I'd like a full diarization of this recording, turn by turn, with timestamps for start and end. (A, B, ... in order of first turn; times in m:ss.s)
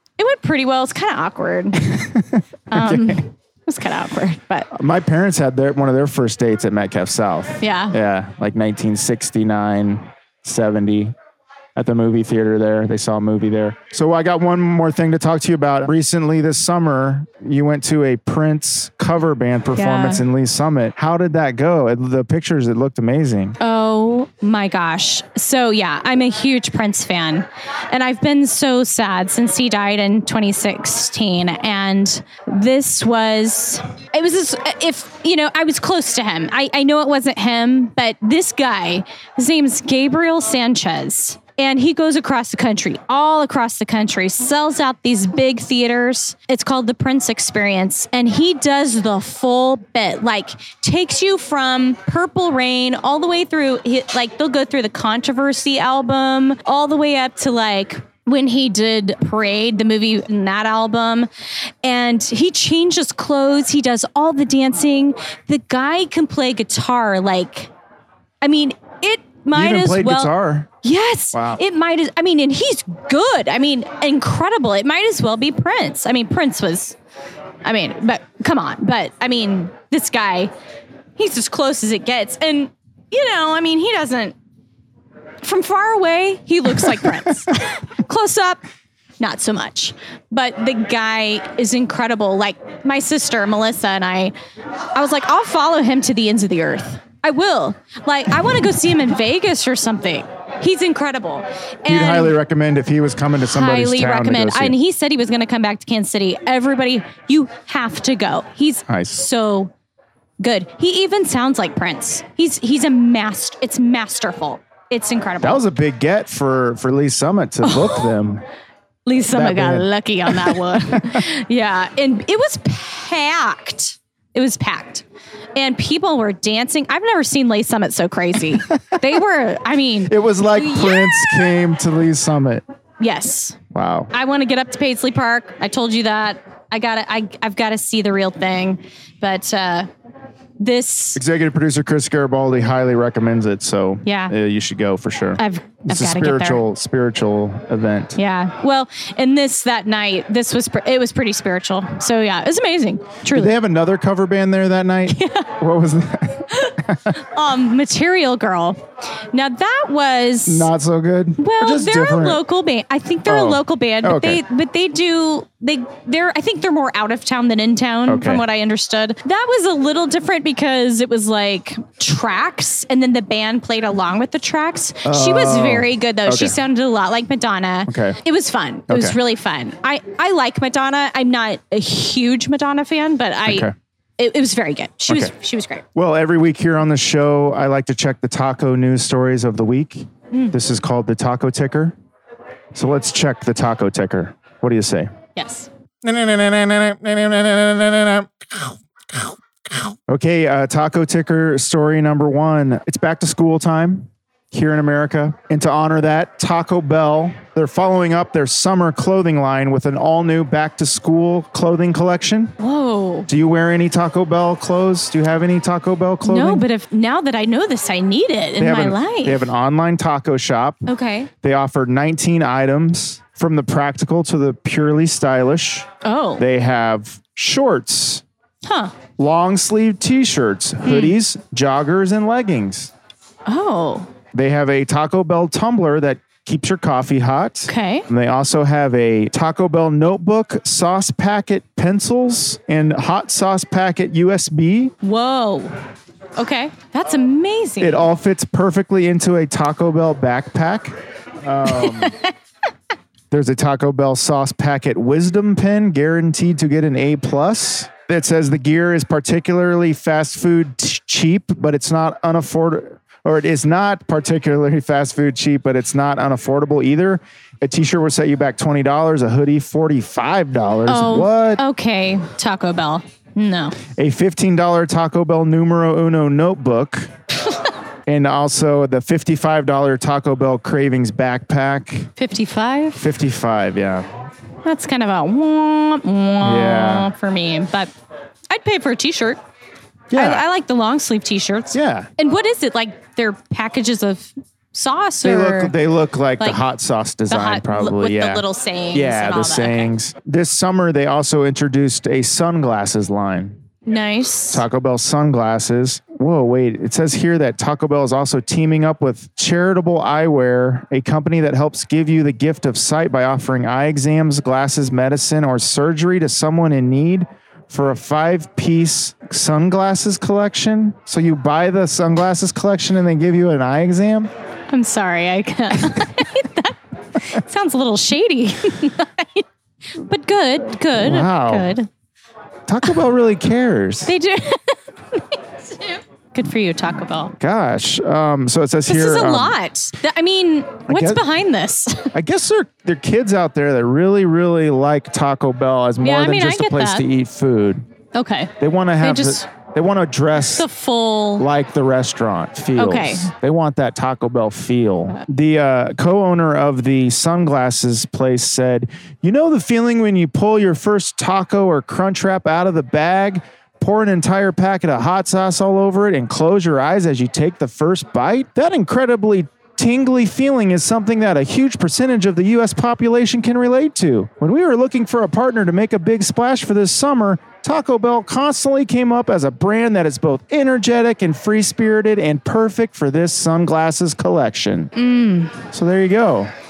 0:00.2-0:01.8 A
0:01.8-0:03.2 B
0:02.7-0:04.7 A
0:04.7-0:11.1 B
0:07.6-0:08.0 A
0:11.8-0:23.6 B
0:19.7-0:20.2 A
0:23.6-1:01.3 A
1:01.8-1:07.7 A
1:08.4-1:17.0 A
1:09.5-1:10.7 B
1:11.3-1:11.6 B
1:17.6-1:20.5 A
1:21.2-1:24.3 A
1:25.4-1:28.6 A
1:29.2-1:34.3 A
1:34.9-1:42.4 A
1:41.8-1:44.8 B
1:43.5-1:49.7 A
1:48.9-1:49.2 B
1:50.4-1:55.6 A
1:55.4-1:58.4 B
1:57.6-1:58.1 A
1:59.0-2:11.6 A
1:59.3-2:01.2 B
2:10.1-2:12.6 B
2:13.0-2:13.6 A
2:13.7-2:14.1 B
2:14.1-2:19.9 A
2:20.6-2:21.2 A
2:21.1-2:28.2 B
2:24.0-2:24.3 A
2:25.4-2:26.6 A
2:28.2-2:33.5 A
2:33.3-2:37.2 B
2:35.1-2:35.5 A
2:36.6-2:38.8 A
2:39.3-2:40.7 A
2:40.4-2:42.4 B
2:41.4-3:05.8 A
2:43.2-2:44.4 B
2:48.1-2:48.4 B
2:55.0-2:56.6 B
2:57.9-2:58.2 B
2:58.9-2:59.2 B
3:03.4-3:03.7 B
3:05.1-3:05.3 B
3:05.9-3:11.9 B
3:10.3-3:10.6 A
3:12.7-3:15.1 B
3:15.4-3:15.7 A
3:16.0-3:32.6 B
3:32.6-3:33.3 A
3:33.3-3:36.6 B
3:36.2-3:39.4 A
3:38.6-3:40.8 B
3:40.8-3:41.3 A
3:41.4-3:48.2 B
3:46.0-3:46.4 A
3:48.6-3:48.9 A
3:49.2-3:52.9 B
3:50.8-3:51.2 A
3:53.4-3:54.1 A
3:54.3-4:04.9 B
3:57.7-3:58.1 A
4:05.0-4:05.7 A
4:06.4-4:08.1 A
4:07.8-4:12.1 B
4:11.6-4:12.3 A
4:13.3-4:31.6 B
4:30.9-4:33.8 A
4:33.9-4:37.1 B
4:38.0-4:42.1 B
4:42.2-4:43.0 A
4:42.9-4:44.1 B
4:44.6-4:47.9 A
4:46.4-4:47.1 B
4:48.5-4:49.4 A
4:50.1-4:50.4 B
4:50.1-4:55.7 A
4:51.7-4:52.1 B
4:55.2-5:03.6 B
4:57.3-4:59.9 A
5:03.8-5:04.6 A
5:04.5-5:24.3 B
5:24.7-5:31.9 A
5:30.9-5:31.7 B
5:32.7-5:34.1 B
5:34.0-5:37.3 A
5:37.4-5:39.6 B
5:38.9-5:42.1 A
5:40.9-5:41.2 B
5:42.1-5:47.8 B
5:46.0-5:47.0 A
5:48.1-5:49.5 A
5:48.6-5:50.6 B
5:50.5-5:51.4 A
5:51.4-6:24.9 B
5:52.8-5:53.3 A
6:24.9-6:25.7 A
6:25.7-6:26.5 B